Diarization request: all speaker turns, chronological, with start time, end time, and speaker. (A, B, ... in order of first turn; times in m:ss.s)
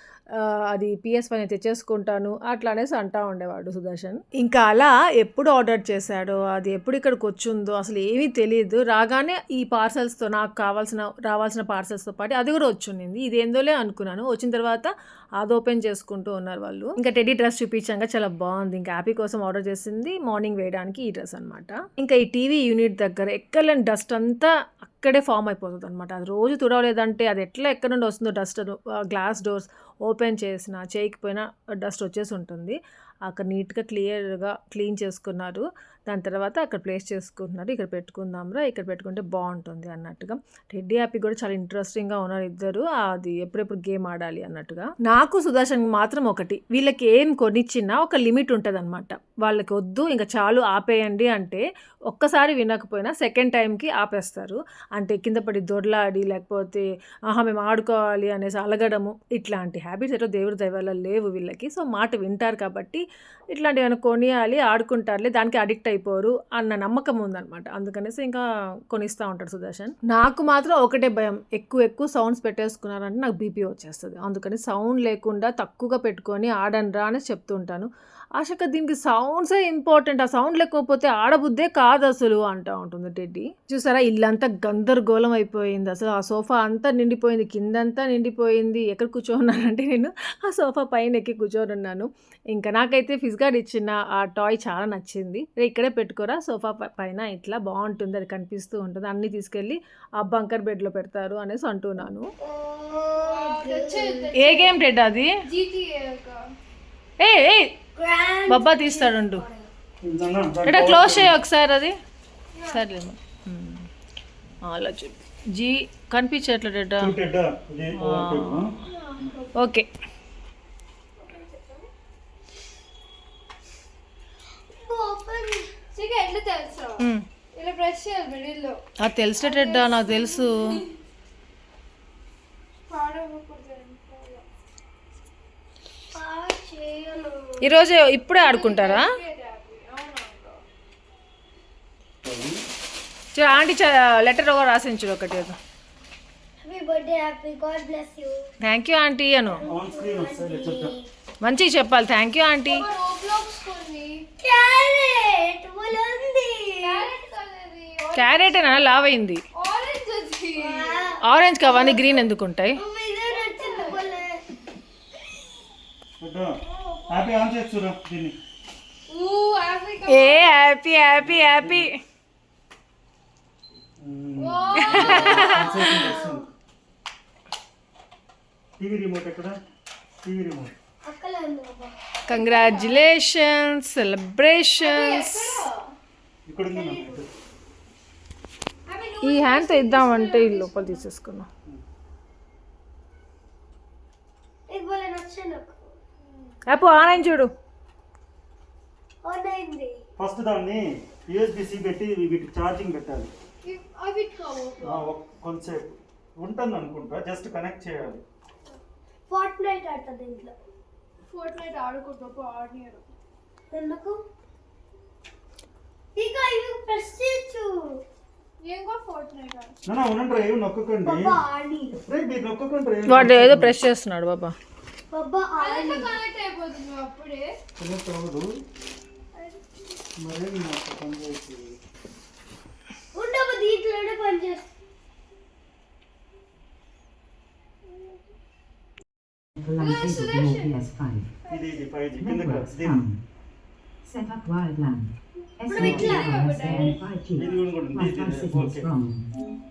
0:00.3-1:42.3 A
1:42.4-1:44.3 B
1:43.2-1:44.8 C
1:44.4-1:45.3 A
1:45.4-1:46.4 C
1:47.2-1:47.7 A
1:48.0-1:49.7 B
1:48.5-1:49.4 A
1:50.0-1:51.4 D
1:50.6-1:51.9 A
1:52.5-1:52.8 C
1:52.7-1:53.8 A
1:54.6-1:57.1 A
1:57.0-1:58.7 D
1:58.0-1:58.8 A
1:58.8-1:59.5 C
1:59.5-1:59.9 A
2:01.2-2:01.9 C
2:04.7-2:05.7 B
2:05.9-2:07.0 C
2:07.5-2:08.8 C
2:09.0-2:10.8 A
2:09.4-2:10.8 C
2:12.9-2:14.4 C
2:16.1-2:17.6 B
2:17.6-2:19.1 A
2:18.3-2:20.6 C
2:22.2-2:22.6 D
2:23.3-2:25.6 A
2:26.6-2:28.5 B
2:28.6-2:29.6 A
2:29.5-2:31.1 B
2:29.6-2:30.9 D
2:31.4-2:32.8 A
2:32.7-2:34.2 C
2:34.4-2:37.1 B
2:36.8-2:38.7 C
2:38.1-2:39.4 A
2:39.6-2:41.1 C
2:40.6-2:41.2 B
2:41.2-2:42.8 A
2:42.8-2:44.4 B
2:43.3-2:44.0 C
2:46.2-2:48.4 D
2:46.6-2:47.4 C
2:49.1-2:50.5 C
2:50.1-2:52.0 A
2:51.2-2:51.9 D
2:54.0-2:56.5 D
2:54.4-2:56.0 C
2:55.0-2:56.5 B
2:55.2-2:55.4 A
2:58.8-2:59.6 D
3:00.2-3:00.7 D
3:01.0-3:01.9 B
3:02.3-3:05.6 A
3:02.3-3:03.0 C
3:04.8-3:05.8 C
3:06.5-3:07.3 D
3:06.7-3:07.3 B
3:08.9-3:11.0 C
3:09.2-3:11.5 A
3:14.7-3:16.0 B
3:16.2-3:17.2 C
3:16.6-3:17.5 A
3:19.2-3:20.0 B
3:20.2-3:23.3 D
3:23.6-3:25.1 C
3:24.8-3:28.2 D
3:29.3-3:30.5 B
3:31.3-3:33.1 C
3:33.7-3:34.2 B
3:36.2-3:38.0 B
3:38.6-3:39.7 C
3:39.8-3:41.4 D
3:41.0-3:42.0 B
3:42.1-3:43.8 D
3:43.1-3:44.5 A
3:45.1-3:46.1 B
3:45.6-3:47.5 C
3:47.8-3:48.5 D
3:50.2-3:51.8 D
3:53.1-3:54.7 B
3:59.6-4:01.3 E
3:59.8-4:00.7 C
4:01.5-4:01.8 C
4:01.5-4:03.0 D
4:02.2-4:03.2 E
4:04.0-4:09.3 E
4:05.7-4:07.0 B
4:05.7-4:07.0 C
4:05.8-4:06.3 D
4:07.3-4:08.8 D